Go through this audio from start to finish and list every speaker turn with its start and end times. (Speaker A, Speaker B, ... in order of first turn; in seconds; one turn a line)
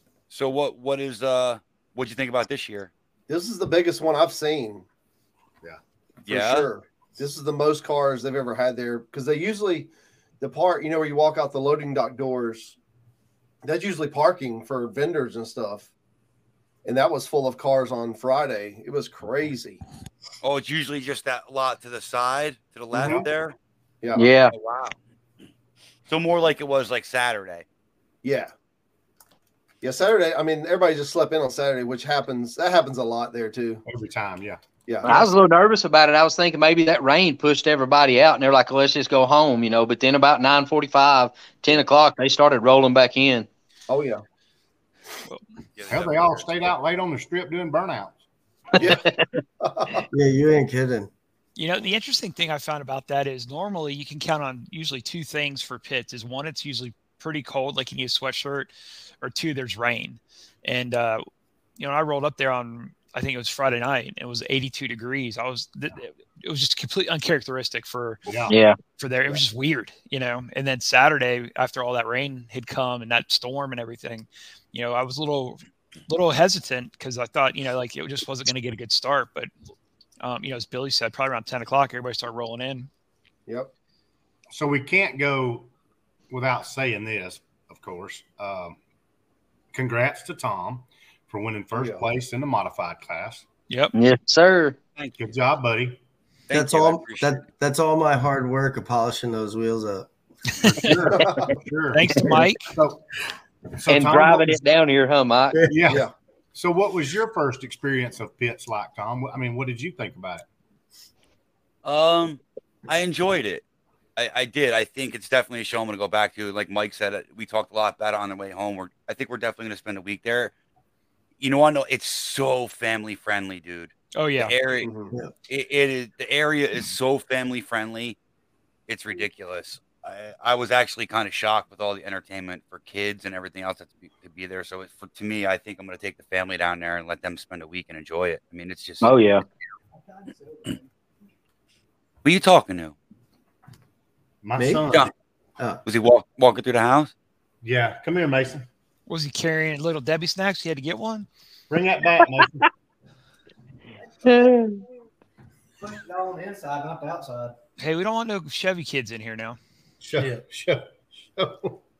Speaker A: 0.3-2.9
Speaker B: 3.3-4.8
Speaker B: 6.2-12.8
Speaker A: 6.3-6.7
Speaker B: 13.6-15.9
Speaker B: 16.8-19.8
Speaker A: 20.4-23.5
Speaker B: 22.9-23.2
Speaker C: 23.0-23.3
Speaker B: 24.0-24.3
Speaker D: 24.1-24.5
Speaker A: 24.5-25.0
Speaker A: 26.1-27.6
Speaker B: 28.2-28.5
Speaker B: 29.8-33.8
Speaker C: 33.8-34.6
Speaker B: 34.9-35.2
Speaker D: 35.0-43.5
Speaker B: 43.9-44.2
Speaker A: 45.8-46.5
Speaker C: 45.9-48.2
Speaker B: 48.8-49.1
Speaker B: 49.6-50.1
Speaker E: 50.1-51.1
Speaker F: 51.5-58.7
Speaker F: 59.2-61.2
Speaker F: 61.8-79.5
Speaker C: 68.3-68.5
Speaker D: 68.5-68.8
Speaker F: 80.2-82.9
Speaker C: 84.5-85.7
Speaker C: 86.3-88.8
Speaker C: 89.7-93.4
Speaker B: 91.7-92.1
Speaker D: 93.9-94.8
Speaker C: 95.2-96.0
Speaker A: 96.5-97.4
Speaker E: 96.5-100.1
Speaker C: 100.6-103.0
Speaker B: 101.1-101.6
Speaker F: 101.9-102.7
Speaker C: 103.7-104.7
Speaker D: 103.9-105.7
Speaker C: 105.7-110.4
Speaker B: 105.9-106.1
Speaker A: 111.8-113.6
Speaker A: 114.2-120.5
Speaker A: 121.4-124.9
Speaker F: 124.1-124.5
Speaker B: 124.8-125.1
Speaker A: 125.5-128.2
Speaker A: 128.9-139.1
Speaker D: 139.0-139.4
Speaker G: 139.9-140.9
Speaker A: 142.2-142.9
Speaker C: 144.4-145.1
Speaker E: 144.6-144.9
Speaker A: 145.8-147.1
Speaker C: 147.6-148.6
Speaker F: 149.1-151.3
Speaker C: 151.7-152.7
Speaker D: 154.2-154.8
Speaker G: 155.8-157.5
Speaker F: 157.8-159.6
Speaker C: 160.0-161.8
Speaker G: 160.2-160.4